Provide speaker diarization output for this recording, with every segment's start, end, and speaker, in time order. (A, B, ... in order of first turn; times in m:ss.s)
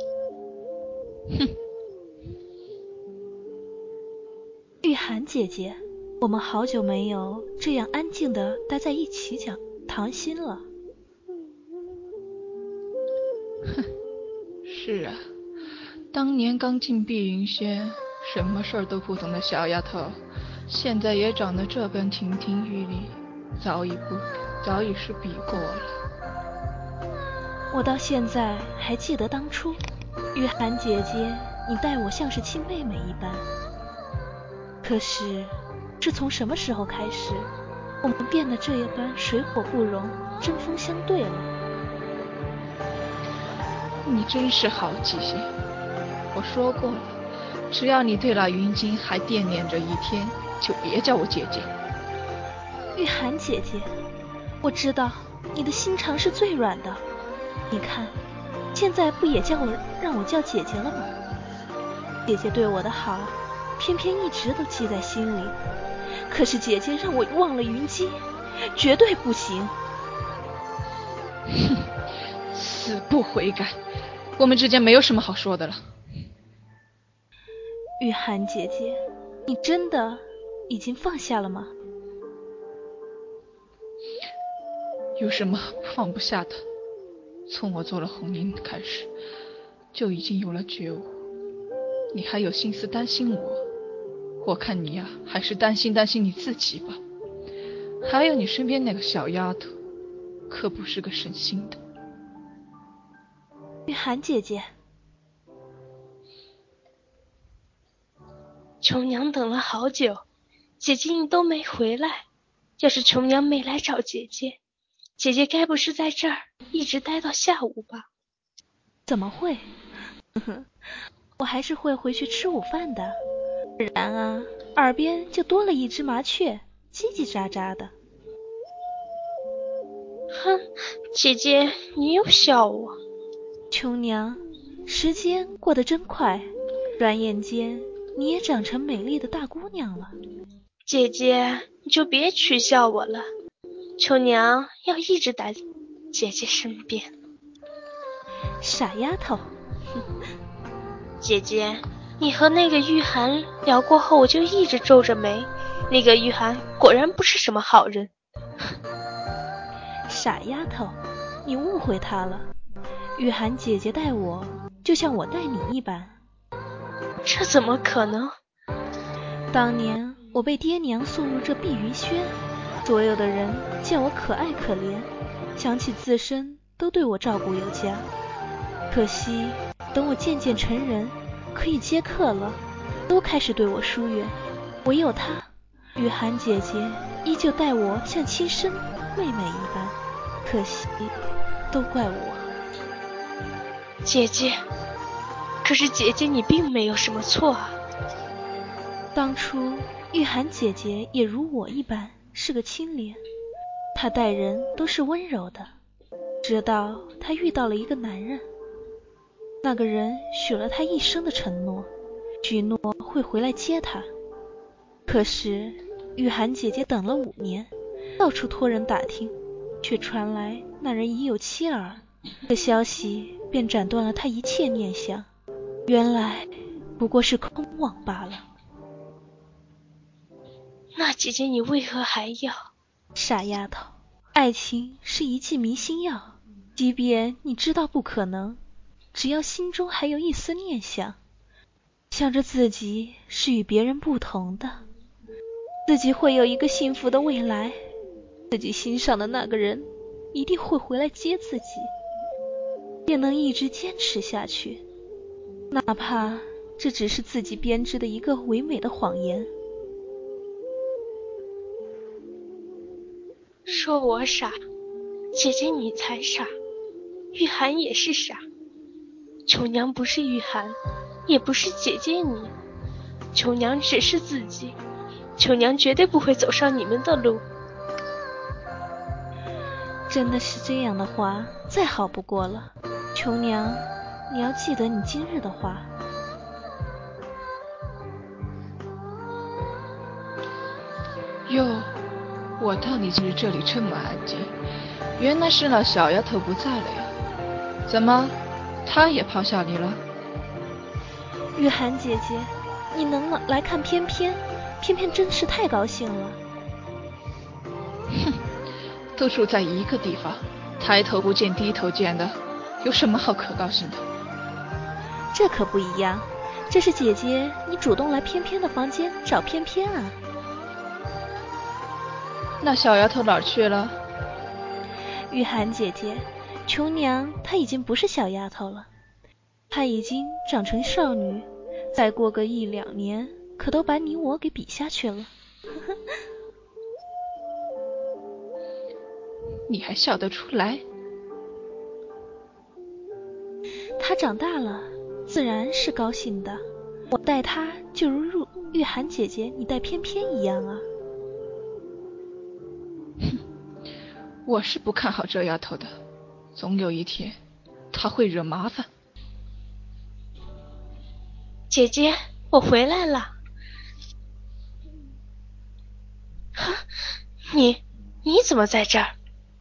0:04.8-0:10.7 A
0:14.6-0:15.2 B
0:16.1-0:26.0 B
0:27.7-0:29.8 A
0:30.3-0:33.5 A
0:34.8-0:37.5 A
0:38.0-0:41.5 A
0:44.0-0:45.5 B
0:46.3-0:47.2 B
0:47.7-0:51.7 B
0:52.9-0:53.9 A
0:54.6-0:57.0 A
0:57.7-0:58.2 A
0:58.7-1:01.1 A
1:02.2-1:05.6 A
1:06.3-1:09.7 A
1:11.5-1:11.8 B
1:12.5-1:13.8 B
1:14.4-1:15.9 B
1:18.0-1:21.7 A
1:25.2-1:26.6 B
1:27.5-1:29.1 B
1:29.9-1:31.1 B
1:32.1-1:33.6 B
1:34.4-1:37.0 B
1:38.0-1:39.7 B
1:40.5-1:41.8 B
1:43.9-1:44.7 A
1:48.8-1:50.2 C
1:50.8-1:52.2 C
1:52.8-1:54.6 C
1:55.2-1:58.0 C
1:59.1-1:59.7 A
2:00.3-2:00.7 A
2:01.4-2:03.2 A
2:03.8-2:07.9 A
2:10.3-2:13.0 C
2:13.7-2:20.1 A
2:20.9-2:23.3 C
2:24.0-2:27.1 C
2:28.6-2:29.5 A
2:31.2-2:38.1 C
2:40.1-2:42.5 A
2:43.2-2:46.2 A
2:47.2-2:48.3 C
2:49.5-2:58.1 A
2:58.9-3:11.1 A
3:11.7-3:12.5 A
3:14.0-3:14.6 C
3:15.6-3:17.8 C
3:19.1-3:23.2 A
3:23.9-3:25.7 A
3:26.4-3:28.4 A
3:29.6-3:31.9 A
3:32.4-3:34.1 A
3:35.1-3:45.3 A
3:45.9-3:48.4 A
3:51.0-3:52.5 C
3:53.1-3:58.6 A
3:59.1-4:01.2 A
4:02.1-4:04.8 A
4:05.8-4:07.8 A
4:08.5-4:11.9 A
4:13.0-4:14.8 A
4:15.7-4:19.5 A
4:23.6-4:24.6 C
4:25.3-4:26.5 C
4:27.3-4:28.4 C
4:29.4-4:32.5 C
4:33.3-4:34.8 C
4:35.4-4:37.4 C
4:40.1-4:45.9 A
4:51.4-4:51.9 B
4:52.6-4:54.5 B
4:55.2-4:57.1 B
4:57.8-5:00.0 B
5:01.5-5:06.4 A
5:09.1-5:14.0 B
5:15.3-5:20.2 A
5:22.6-5:24.0 B
5:25.3-5:28.9 A
5:29.7-5:35.3 A
5:39.7-5:40.8 B
5:44.0-5:50.9 A
5:54.4-5:55.9 B
5:56.6-5:57.4 B
5:57.9-5:58.9 B
6:01.7-6:03.3 C
6:06.6-6:06.8 C
6:07.5-6:09.1 C